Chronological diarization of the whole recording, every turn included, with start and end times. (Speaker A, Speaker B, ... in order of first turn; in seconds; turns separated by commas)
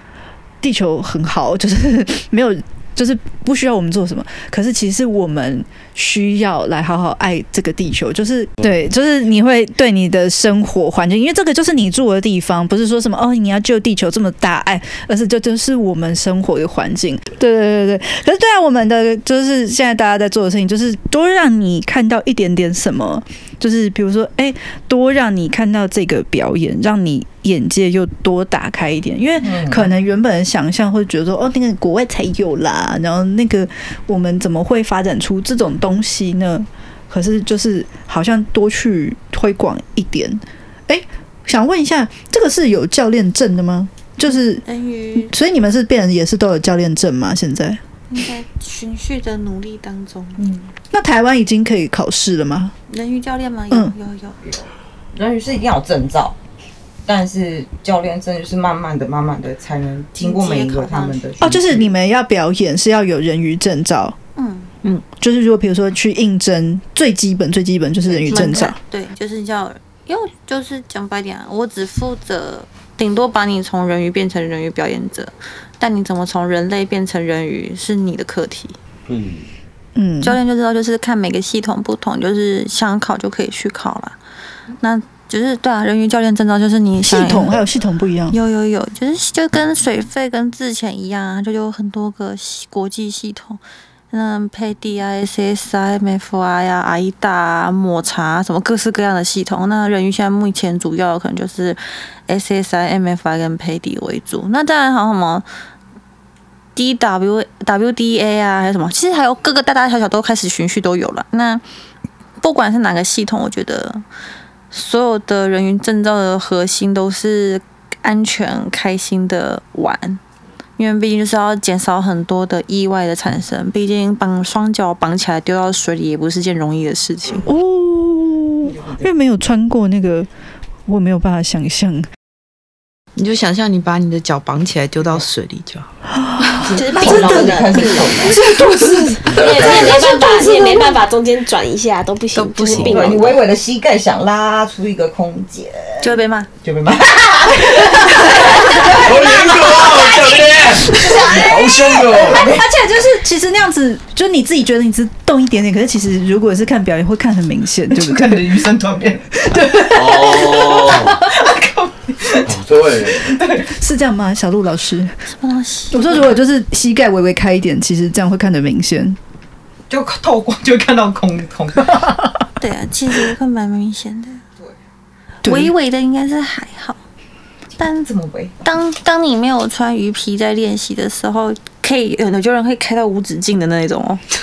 Speaker A: 0.6-44.6, Speaker B: 29.4-29.9, Speaker C: 44.6-45.3, Speaker A: 45.2-47.8, Speaker C: 48.1-50.4, Speaker B: 50.4-50.7, Speaker A: 50.9-52.7, Speaker C: 52.9-54.6, Speaker B: 55.1-56.4, Speaker B: 57.1-61.9, Speaker C: 60.2-61.2, Speaker A: 61.4-64.2, Speaker C: 64.4-64.7, Speaker A: 65.0-68.8, Speaker C: 68.1-78.8, Speaker D: 79.1-79.5, Speaker A: 80.0-80.4, Speaker C: 80.2-84.2, Speaker C: 84.8-87.6, Speaker A: 87.0-88.4, Speaker C: 88.3-105.5, Speaker C: 106.8-111.6, Speaker C: 112.4-114.0, Speaker C: 114.7-120.2, Speaker C: 120.8-127.5, Speaker A: 127.4-130.3, Speaker B: 128.7-129.1, Speaker A: 130.9-132.1, Speaker E: 133.2-135.9, Speaker A: 136.2-141.0, Speaker B: 136.6-138.4, Speaker F: 136.8-138.4, Speaker D: 139.3-140.1, Speaker F: 139.3-143.4, Speaker E: 142.3-142.9, Speaker D: 142.7-143.4, Speaker B: 142.8-149.7, Speaker C: 146.0-146.5, Speaker A: 147.7-150.1, Speaker D: 148.9-152.5, Speaker B: 150.8-152.7, Speaker A: 151.0-151.4, Speaker A: 152.1-158.5, Speaker B: 157.9-159.5, Speaker A: 159.4-161.4, Speaker D: 159.9-161.2, Speaker B: 161.1-162.5, Speaker D: 162.4-163.3, Speaker B: 163.1-163.7, Speaker A: 163.6-165.1, Speaker C: 165.3-166.2, Speaker A: 165.9-169.2, Speaker B: 169.9-172.0, Speaker C: 172.6-174.4, Speaker A: 175.4-175.7, Speaker C: 175.4-177.0, Speaker C: 177.8-178.1, Speaker B: 178.1-178.6, Speaker C: 178.6-184.2